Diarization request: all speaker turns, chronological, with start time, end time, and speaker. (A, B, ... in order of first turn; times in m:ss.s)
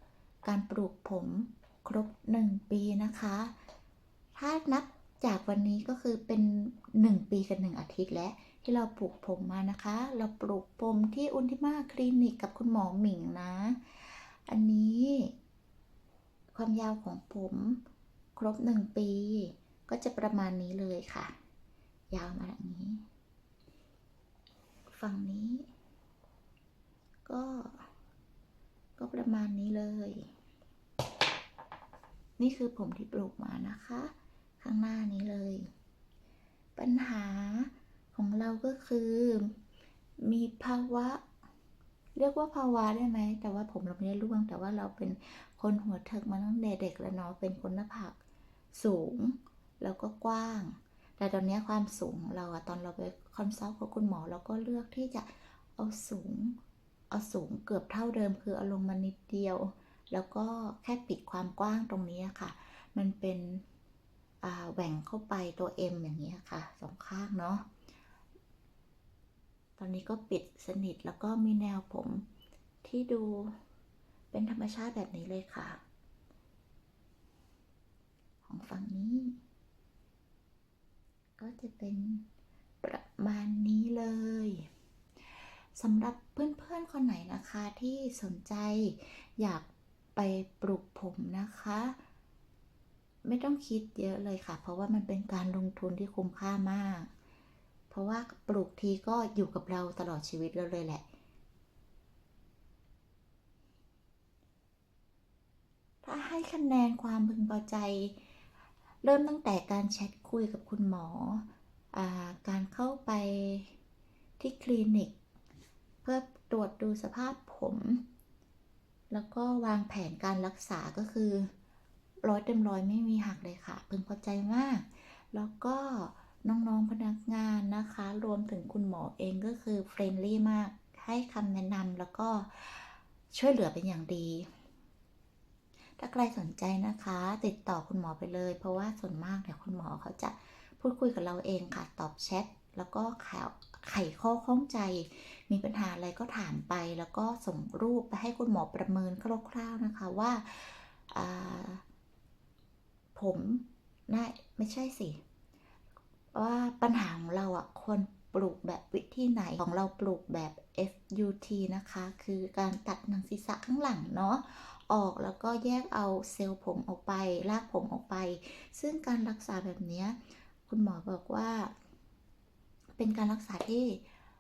0:00.4-0:03.5 A
0:04.3-0:15.3 A
0:16.5-0:17.8 A
0:18.4-0:21.3 A
0:22.1-0:23.0 A
0:24.9-0:25.7 A
0:27.2-0:27.9 A
0:29.0-0:30.3 A
0:32.4-0:35.7 A
0:36.8-0:39.5 A
0:40.2-0:41.2 A
0:42.2-0:48.2 A
0:48.7-0:56.6 A
0:57.1-1:03.6 A
1:04.4-1:07.6 A
1:09.8-1:12.2 A
1:12.8-1:13.5 A
1:14.3-1:15.8 A
1:18.4-1:19.4 A
1:21.4-1:22.2 A
1:22.8-1:24.7 A
1:25.8-1:32.0 A
1:33.2-1:37.1 A
1:37.9-1:41.0 A
1:46.0-1:48.2 A
1:49.0-1:53.7 A
1:54.4-1:55.1 A
1:56.0-1:58.0 A
1:59.1-2:01.5 A
2:02.2-2:14.5 A
2:16.0-2:31.8 A
2:33.1-2:35.2 A
2:36.3-2:51.7 A
2:53.0-2:54.0 A